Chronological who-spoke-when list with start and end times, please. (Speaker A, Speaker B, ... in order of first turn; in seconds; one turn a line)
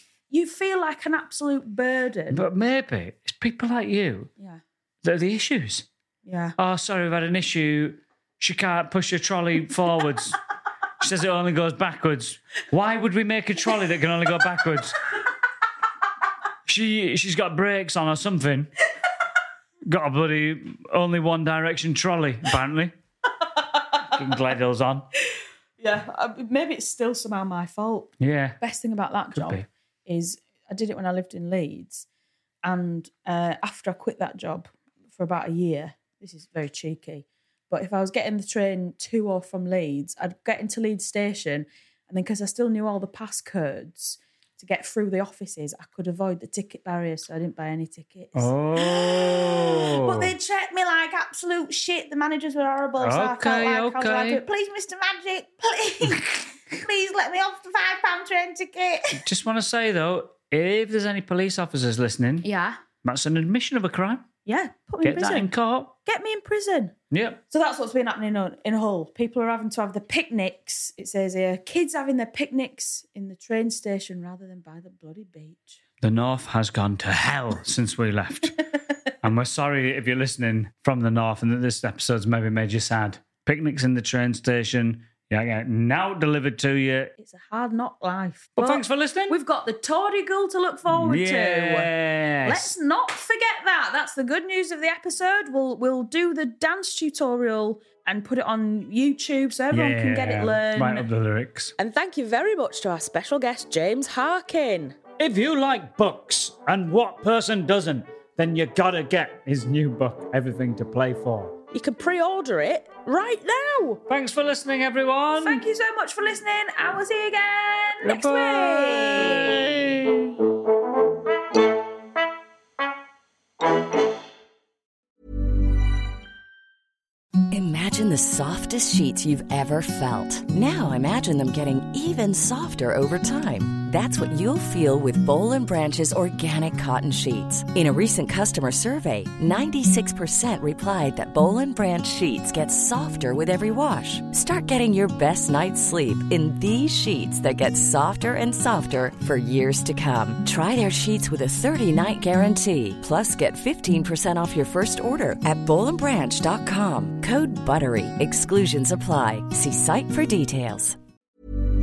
Speaker A: 0.3-2.5
Speaker B: 2.3-4.3
Speaker B: 5.0-5.9
Speaker A: 6.2-6.6
Speaker B: 6.6-10.4
Speaker B: 11.0-15.0
Speaker B: 16.7-18.7
Speaker B: 19.9-22.9
Speaker A: 23.5-23.9
Speaker B: 24.1-25.1
Speaker A: 25.8-32.1
Speaker B: 28.2-28.6
Speaker B: 29.4-29.7
Speaker A: 32.6-59.2
Speaker B: 48.4-50.3
Speaker B: 53.0-54.4
Speaker B: 59.1-62.5
Speaker A: 62.4-62.8
Speaker B: 63.0-64.2
Speaker A: 64.5-65.5
Speaker B: 65.0-65.9
Speaker A: 66.0-67.0
Speaker B: 67.1-67.4
Speaker A: 67.5-75.8
Speaker B: 76.0-78.6
Speaker B: 79.2-87.1
Speaker A: 87.2-91.9
Speaker B: 88.6-89.4
Speaker B: 90.9-92.7
Speaker A: 92.4-101.1
Speaker B: 99.7-101.7
Speaker C: 101.8-105.0
Speaker B: 105.2-111.6
Speaker C: 111.7-114.0
Speaker B: 114.1-115.6
Speaker A: 115.4-119.6
Speaker B: 118.0-120.3
Speaker D: 127.5-161.0